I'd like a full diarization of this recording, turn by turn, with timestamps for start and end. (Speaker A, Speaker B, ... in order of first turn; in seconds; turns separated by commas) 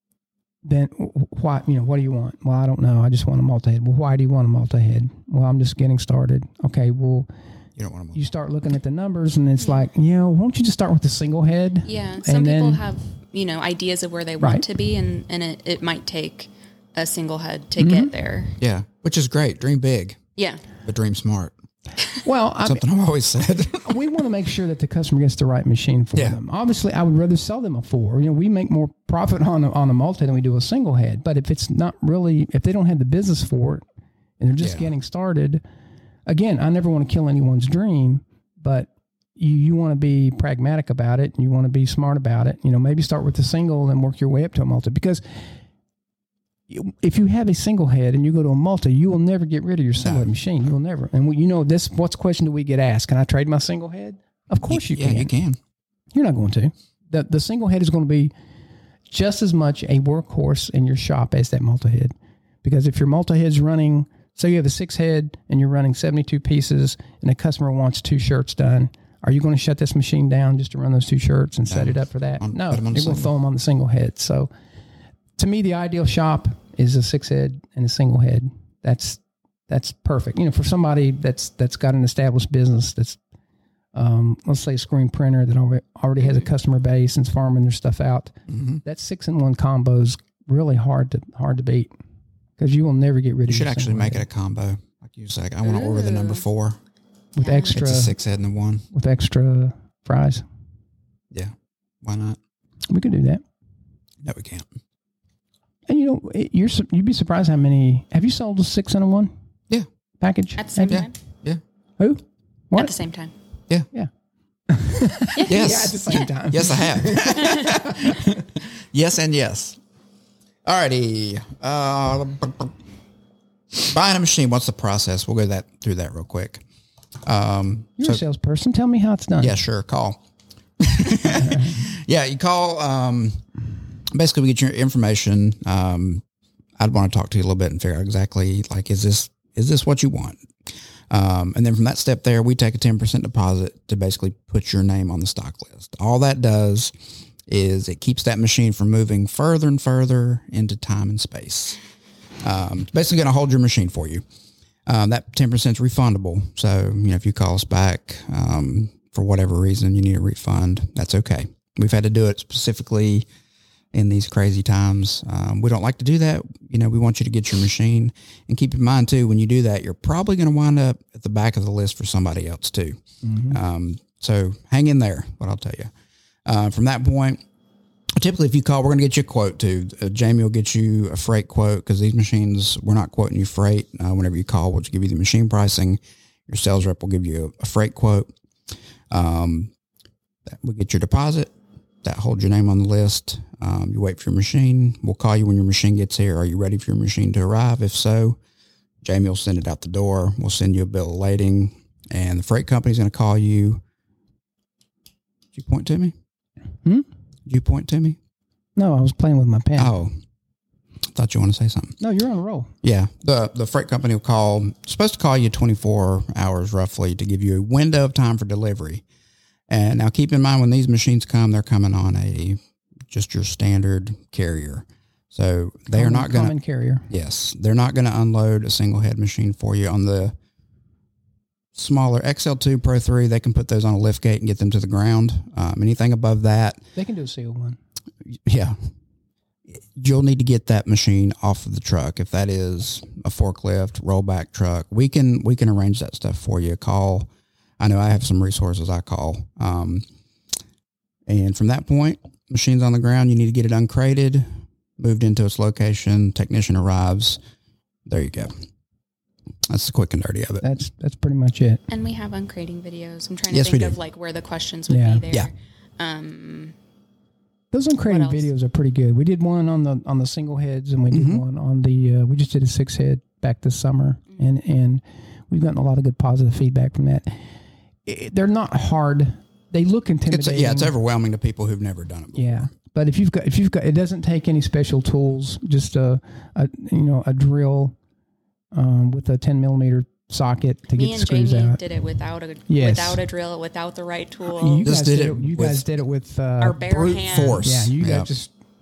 Speaker A: 0.6-7.3, Speaker B: 7.8-8.3, Speaker A: 8.1-12.8, Speaker C: 11.8-18.6, Speaker A: 14.4-14.7, Speaker A: 17.8-18.1, Speaker B: 18.6-20.2, Speaker C: 20.4-20.6, Speaker B: 20.8-21.5, Speaker A: 22.2-22.8, Speaker B: 22.6-24.0, Speaker A: 23.8-33.8, Speaker A: 34.4-35.6, Speaker B: 34.6-34.9, Speaker A: 36.3-45.4, Speaker A: 46.7-55.3, Speaker B: 50.0-50.3, Speaker B: 54.6-55.6, Speaker A: 56.1-58.3, Speaker A: 59.1-74.5, Speaker B: 71.7-73.3, Speaker A: 75.4-83.2, Speaker A: 83.9-91.9, Speaker B: 88.5-88.8, Speaker A: 92.6-94.2, Speaker B: 93.5-96.8, Speaker C: 95.6-96.4, Speaker A: 97.3-98.1, Speaker C: 97.4-97.7, Speaker B: 97.7-98.8, Speaker A: 98.9-100.4, Speaker B: 101.3-102.4, Speaker A: 102.9-103.4, Speaker B: 104.2-104.7, Speaker A: 105.9-109.3, Speaker A: 110.2-111.1, Speaker C: 110.6-111.1, Speaker B: 110.9-111.6, Speaker A: 112.0-112.9, Speaker C: 112.8-113.3, Speaker A: 114.7-118.5, Speaker C: 115.3-116.3, Speaker B: 115.5-119.8, Speaker C: 117.3-117.8, Speaker B: 120.6-122.7, Speaker B: 123.7-126.6, Speaker B: 127.2-128.2, Speaker A: 128.0-129.6, Speaker B: 129.4-130.2, Speaker B: 130.8-133.4, Speaker A: 131.2-131.8, Speaker B: 134.1-136.2, Speaker B: 136.8-140.4, Speaker B: 141.1-146.9, Speaker B: 147.5-151.8, Speaker B: 152.4-154.2, Speaker B: 154.8-163.2, Speaker B: 163.9-175.9, Speaker A: 173.2-173.6, Speaker B: 176.4-177.4, Speaker B: 178.2-188.3, Speaker B: 189.1-189.7, Speaker B: 190.5-198.4, Speaker B: 199.0-203.8, Speaker B: 205.5-206.1, Speaker B: 207.4-208.2, Speaker A: 208.8-209.9, Speaker B: 209.8-210.1, Speaker B: 211.1-211.9, Speaker A: 212.0-212.7, Speaker B: 212.8-219.0, Speaker B: 219.7-222.6, Speaker B: 223.1-226.5, Speaker A: 225.9-227.1, Speaker B: 227.1-230.3, Speaker B: 231.7-236.8, Speaker A: 236.9-237.8, Speaker B: 238.3-238.8, Speaker B: 239.7-247.3, Speaker B: 247.8-250.0, Speaker B: 251.3-257.4, Speaker B: 258.1-258.5, Speaker B: 259.7-260.6, Speaker A: 260.6-261.8, Speaker C: 261.9-266.7, Speaker B: 263.5-264.0, Speaker A: 264.9-265.2, Speaker A: 267.7-277.4, Speaker C: 268.0-268.5, Speaker B: 271.1-271.4, Speaker A: 278.0-280.9, Speaker B: 280.3-282.7, Speaker A: 282.3-287.9, Speaker A: 288.7-291.8, Speaker C: 290.9-294.9, Speaker A: 292.7-293.2, Speaker A: 294.4-298.5, Speaker B: 294.8-295.8, Speaker C: 296.6-297.6, Speaker B: 296.9-298.3